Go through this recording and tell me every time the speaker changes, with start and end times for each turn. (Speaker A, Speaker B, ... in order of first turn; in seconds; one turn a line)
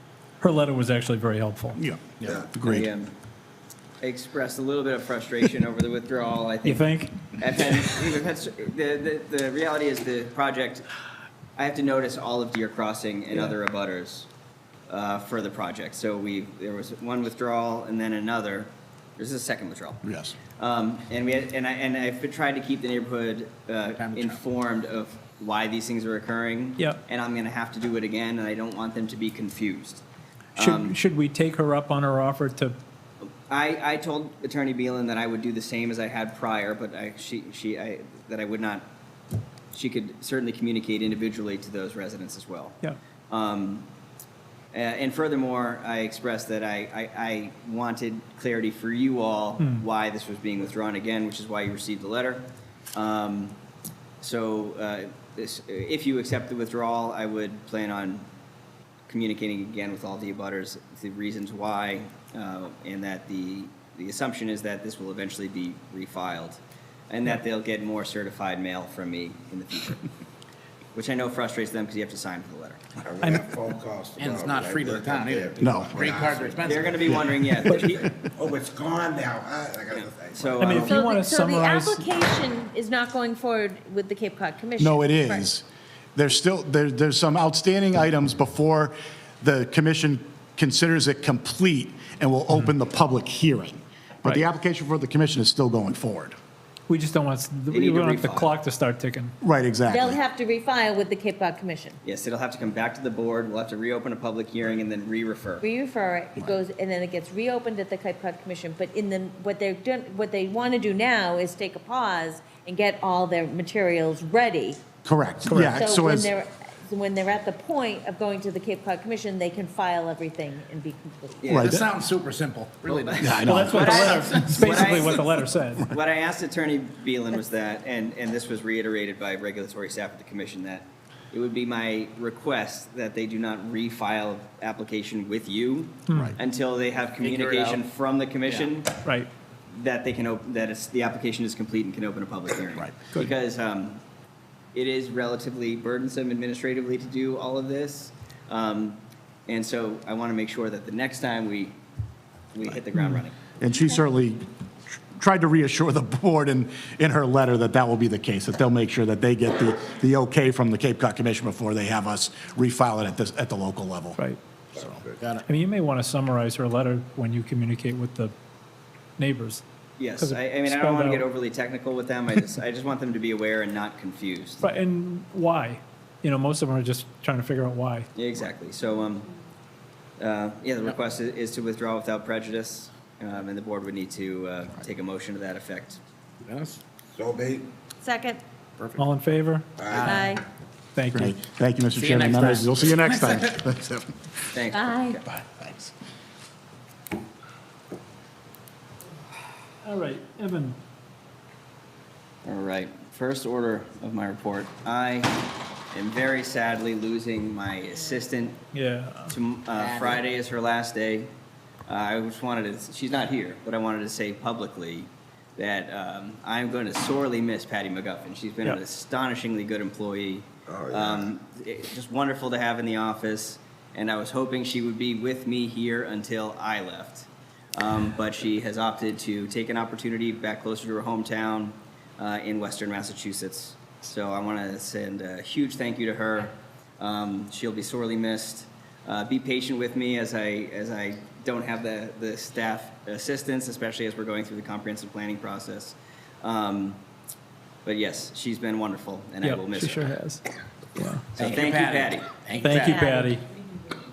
Speaker A: 0.4-1.8
Speaker B: 1.8-2.9
Speaker C: 2.3-3.1
Speaker C: 4.0-10.9
Speaker A: 6.6-7.1
Speaker C: 11.6-14.3
Speaker C: 14.9-20.0
Speaker B: 20.1-20.4
Speaker C: 20.6-30.0
Speaker D: 24.0-24.4
Speaker C: 30.6-30.9
Speaker A: 30.6-32.8
Speaker C: 33.5-38.9
Speaker C: 39.7-42.8
Speaker C: 43.3-43.9
Speaker C: 44.7-53.6
Speaker C: 54.2-58.3
Speaker C: 59.1-70.0
Speaker C: 71.0-72.8
Speaker E: 73.1-76.6
Speaker A: 73.2-73.5
Speaker D: 74.2-77.5
Speaker B: 75.6-76.3
Speaker C: 76.6-78.2
Speaker B: 77.1-77.5
Speaker E: 78.5-80.0
Speaker C: 79.9-81.1
Speaker A: 80.6-82.1
Speaker F: 80.7-85.5
Speaker B: 84.8-85.7
Speaker B: 86.2-96.4
Speaker A: 96.9-99.3
Speaker C: 97.7-98.5
Speaker B: 99.4-100.2
Speaker F: 99.9-102.0
Speaker C: 102.0-105.7
Speaker F: 105.6-114.8
Speaker B: 115.0-116.3
Speaker A: 115.5-115.7
Speaker F: 115.7-121.5
Speaker C: 121.4-121.8
Speaker B: 121.5-121.9
Speaker D: 121.5-124.7
Speaker C: 123.2-139.0
Speaker B: 123.2-124.2
Speaker A: 123.4-125.9
Speaker A: 136.1-136.4
Speaker D: 137.2-137.8
Speaker A: 139.0-139.3
Speaker C: 139.7-144.0
Speaker C: 144.7-151.8
Speaker C: 152.6-153.4
Speaker B: 153.6-164.2
Speaker D: 165.2-165.5
Speaker A: 165.5-168.3
Speaker A: 169.2-169.6
Speaker C: 170.0-174.7
Speaker A: 170.2-171.2
Speaker A: 174.6-178.1
Speaker C: 178.2-179.3
Speaker C: 180.2-186.0
Speaker D: 186.5-186.8
Speaker E: 187.2-187.7
Speaker F: 188.0-188.4
Speaker D: 188.8-189.1
Speaker A: 189.0-190.1
Speaker D: 189.9-190.4
Speaker F: 189.9-190.4
Speaker A: 190.9-191.3
Speaker B: 191.1-194.2
Speaker D: 192.0-193.4
Speaker C: 194.5-195.2
Speaker F: 194.7-195.2
Speaker D: 195.4-195.6
Speaker A: 199.8-200.8
Speaker C: 202.4-208.6
Speaker A: 208.7-209.4
Speaker C: 209.3-211.3
Speaker D: 209.8-210.2
Speaker C: 211.9-247.0
Speaker C: 247.8-250.1
Speaker A: 249.4-250.4
Speaker A: 250.9-251.3
Speaker C: 251.4-252.4
Speaker D: 251.4-253.0
Speaker A: 252.6-253.4
Speaker F: 252.6-253.3